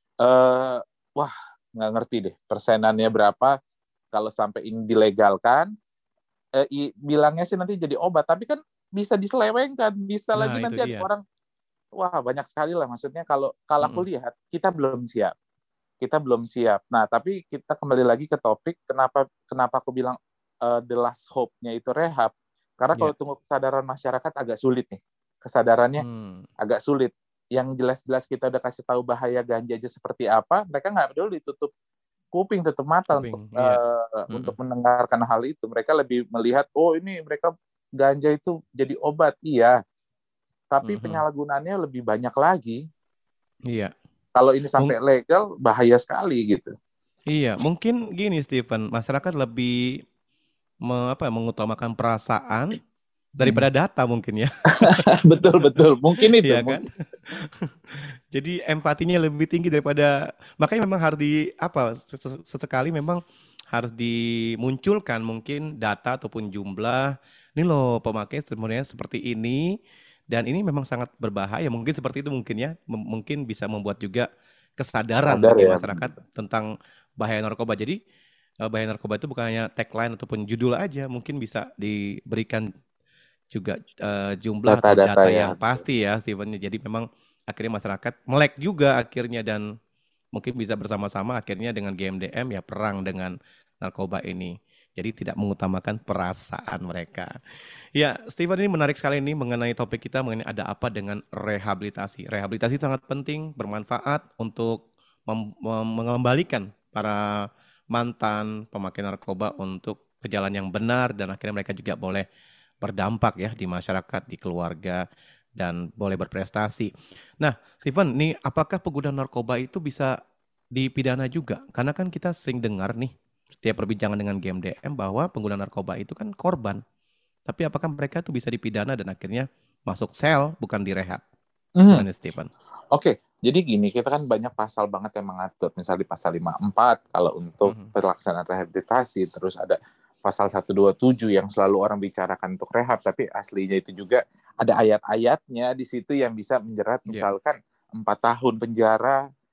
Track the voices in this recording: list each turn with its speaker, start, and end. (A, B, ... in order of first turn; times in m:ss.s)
0:00.2-0:03.5 A
0:04.1-0:05.7 A
0:06.6-0:11.2 A
0:10.4-0:11.1 B
0:12.0-0:15.3 A
0:16.0-0:26.0 A
0:26.0-0:26.5 B
0:26.6-0:31.7 A
0:32.3-0:39.8 A
0:33.1-0:33.8 B
0:40.7-0:42.8 A
0:40.9-0:41.2 B
0:44.4-0:46.7 A
0:47.3-0:50.0 B
0:50.9-0:52.8 B
0:53.4-0:53.6 A
0:53.4-0:55.0 B
0:54.7-0:56.8 A
0:55.6-0:55.9 B
0:56.4-1:09.7 B
1:10.3-1:14.3 B
1:14.8-1:16.7 B
1:15.3-1:16.1 A
1:17.2-1:18.0 B
1:18.7-1:22.7 B
1:23.5-1:29.7 B
1:24.7-1:25.8 A
1:30.4-1:37.4 B
1:38.0-1:52.2 B
1:52.8-1:55.0 B
1:55.6-2:00.1 B
2:00.8-2:06.8 B
2:07.5-2:11.2 B
2:11.8-2:12.1 A
2:11.9-2:12.5 B
2:12.9-2:29.2 A
2:17.7-2:17.9 B